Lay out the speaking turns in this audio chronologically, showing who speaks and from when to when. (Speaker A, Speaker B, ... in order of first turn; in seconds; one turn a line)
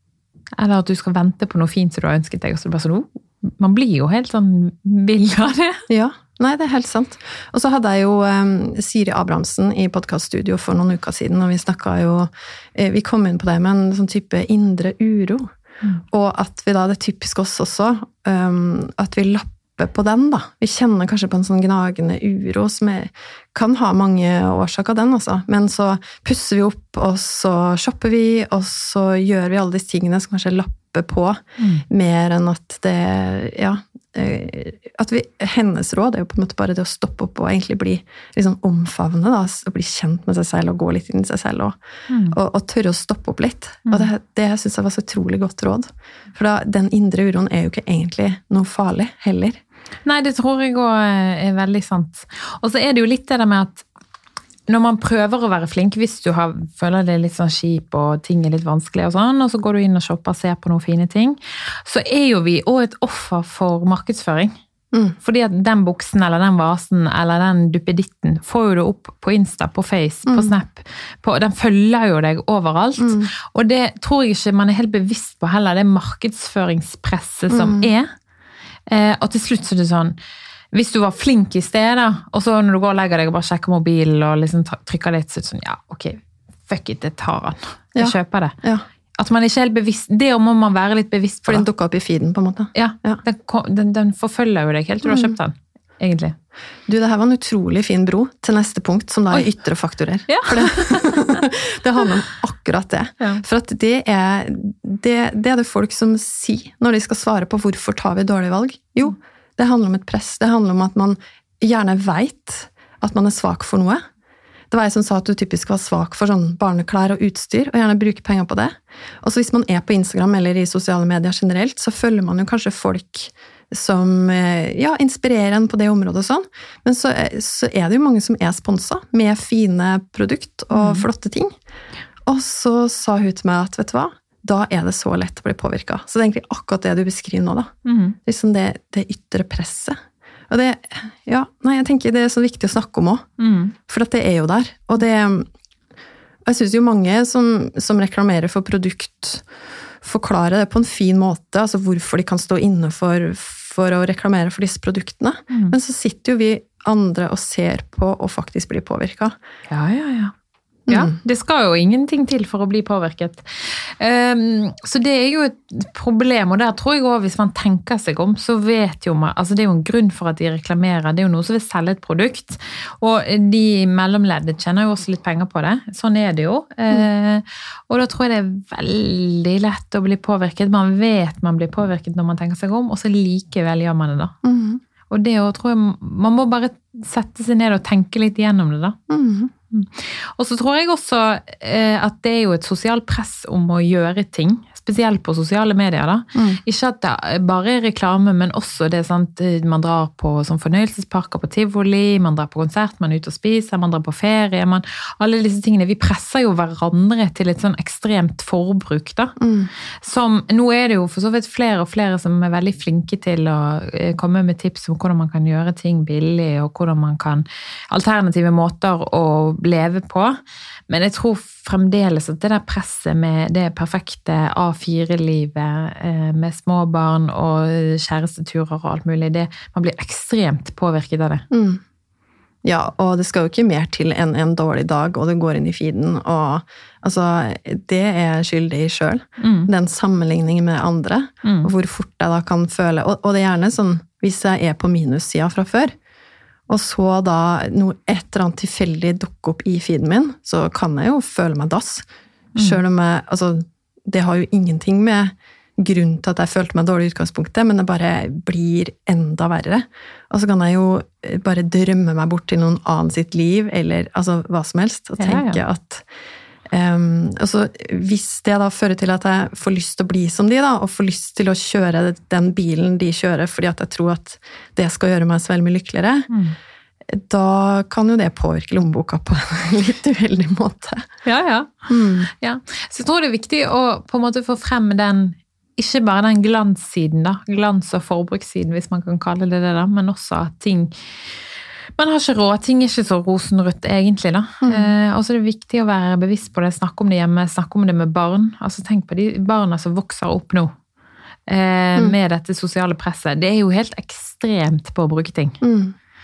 Speaker A: 0.6-5.8
Speaker B: 5.9-15.5
Speaker B: 16.1-41.8
Speaker A: 31.6-31.9
Speaker A: 42.1-42.4
Speaker B: 42.3-49.6
Speaker A: 50.0-53.9
Speaker A: 54.7-64.6
Speaker A: 65.2-78.1
Speaker B: 70.3-70.5
Speaker B: 73.0-73.3
Speaker B: 77.5-77.9
Speaker A: 78.9-80.2
Speaker A: 80.7-88.6
Speaker B: 88.0-88.8
Speaker A: 89.2-91.7
Speaker B: 91.5-93.2
Speaker A: 92.7-96.3
Speaker B: 95.0-95.3
Speaker B: 96.9-114.0
Speaker A: 100.3-101.4
Speaker B: 114.7-131.5
Speaker A: 130.7-131.1
Speaker B: 132.3-137.7
Speaker A: 137.8-138.2
Speaker B: 138.2-140.0
Speaker B: 140.5-143.3
Speaker A: 143.4-143.8
Speaker B: 143.9-145.5
Speaker B: 146.5-149.5
Speaker B: 150.0-159.4
Speaker A: 159.7-160.3
Speaker B: 160.9-161.1
Speaker A: 160.9-184.3
Speaker B: 184.4-184.8
Speaker A: 185.1-189.0
Speaker B: 189.1-189.5
Speaker A: 189.7-209.3
Speaker B: 196.3-196.6
Speaker B: 209.4-209.7
Speaker A: 210.0-231.4
Speaker B: 231.5-231.8
Speaker B: 232.6-245.9
Speaker A: 239.4-239.7
Speaker A: 241.4-241.7
Speaker B: 246.7-252.1
Speaker B: 252.6-266.1
Speaker A: 265.2-265.6
Speaker B: 266.7-276.3
Speaker A: 276.3-276.6
Speaker B: 277.1-281.1
Speaker A: 281.2-290.9
Speaker B: 281.9-282.3
Speaker A: 292.0-300.7
Speaker B: 294.6-294.9
Speaker A: 301.5-305.6
Speaker B: 305.6-305.9